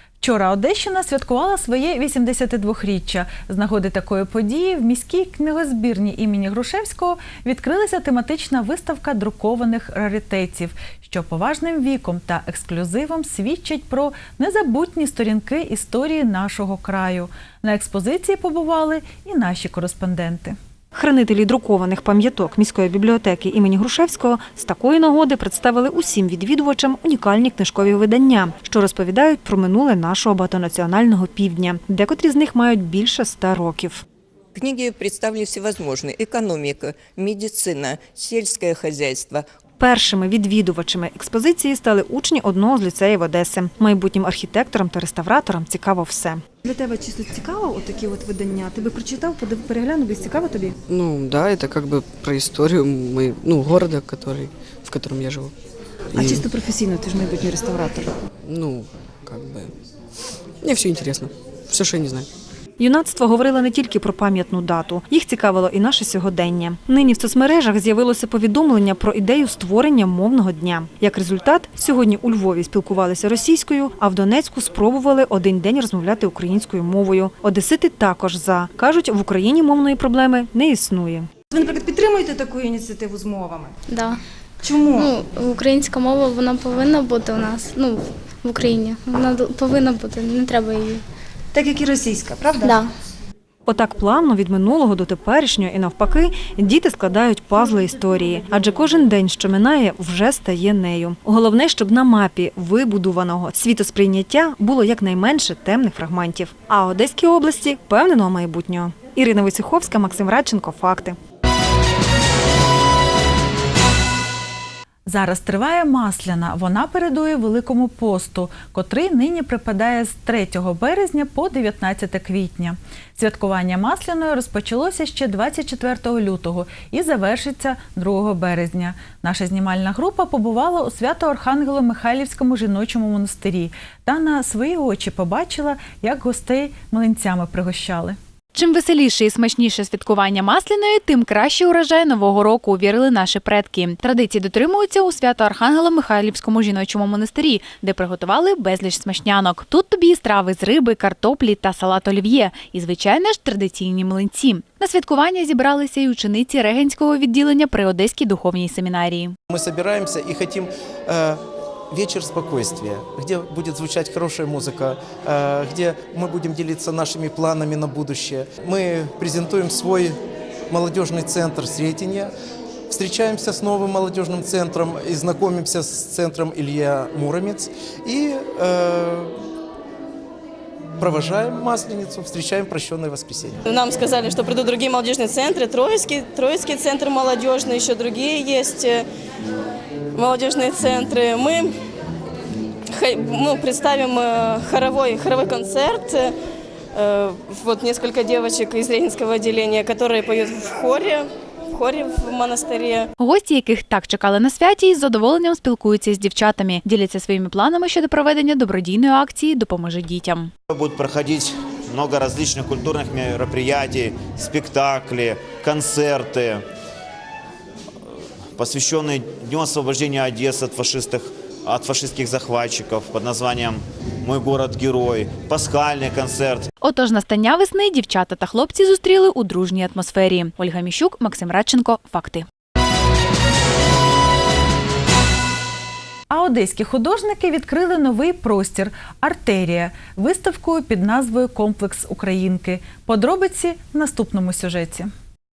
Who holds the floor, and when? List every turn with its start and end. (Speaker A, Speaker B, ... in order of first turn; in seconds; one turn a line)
Speaker A: 0.2-20.6
Speaker B: 20.9-34.0
Speaker C: 34.5-39.5
Speaker B: 39.8-50.7
Speaker D: 50.9-55.5
Speaker D: 56.1-56.5
Speaker E: 56.1-56.5
Speaker B: 56.2-58.0
Speaker D: 58.5-59.7
Speaker D: 60.6-62.3
Speaker B: 62.8-81.3
Speaker E: 81.5-83.7
Speaker E: 84.6-85.2
Speaker F: 85.0-91.0
Speaker E: 91.5-92.8
Speaker B: 93.7-111.2
Speaker A: 115.1-138.2
Speaker G: 138.6-159.3
Speaker H: 159.6-161.4
Speaker H: 161.9-170.1
Speaker H: 170.7-172.3
Speaker H: 172.9-179.3
Speaker H: 181.0-183.6
Speaker I: 183.7-189.0
Speaker I: 190.2-191.7
Speaker I: 192.9-196.3
Speaker I: 196.9-203.1
Speaker G: 203.2-210.5
Speaker J: 210.7-216.6
Speaker J: 218.6-226.7
Speaker G: 226.8-232.4
Speaker A: 236.3-245.1